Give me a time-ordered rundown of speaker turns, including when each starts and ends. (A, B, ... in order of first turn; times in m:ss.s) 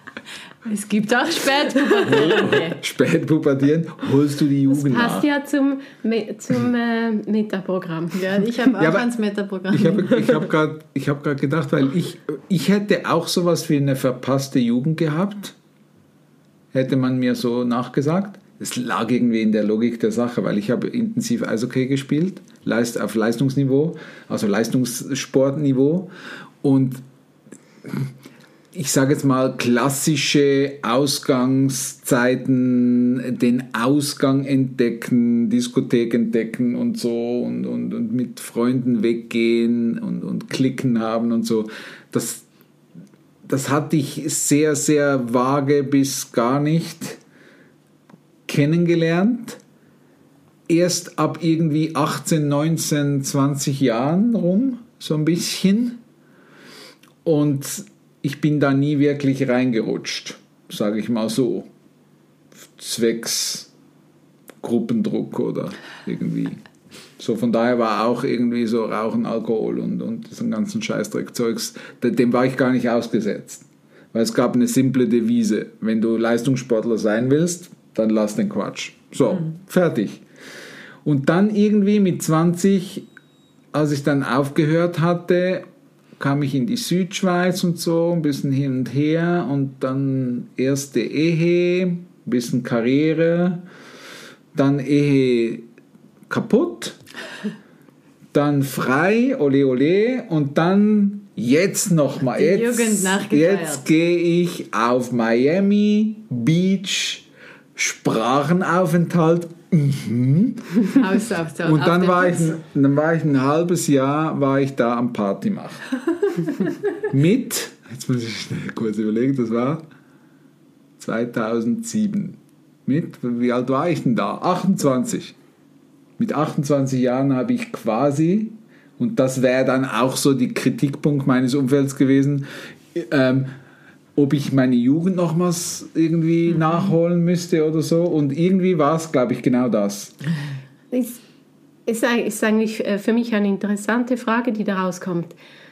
0:00.6-0:02.8 A
0:02.0-0:05.2 B
0:04.7-0:08.2 C
0:08.1-0:10.4 A
0:08.8-0:09.1 B
0:09.7-0:15.6 B
0:16.7-0:26.1 B
0:26.6-0:27.0 B
0:27.8-0:28.1 B
0:28.7-0:42.4 B
0:43.4-0:47.2 B
0:48.5-0:49.6 B
0:50.7-0:56.0 B
0:57.2-1:01.7 B
1:02.7-1:03.7 B
1:04.6-1:06.6 B
1:07.2-1:20.2 B
1:21.0-1:23.1 B
1:23.7-1:25.6 B
1:26.2-1:33.6 B
1:34.5-1:35.7 B
1:36.3-1:37.0 B
1:38.3-1:47.2 B
1:42.3-1:43.8 A
1:47.8-1:51.0 B
1:50.9-1:52.6 A
1:51.6-1:55.8 B
1:57.1-1:59.8 B
2:01.0-2:05.3 B
2:06.2-2:13.5 B
2:14.2-2:20.1 B
2:20.9-2:21.2 C
2:21.8-2:25.3 C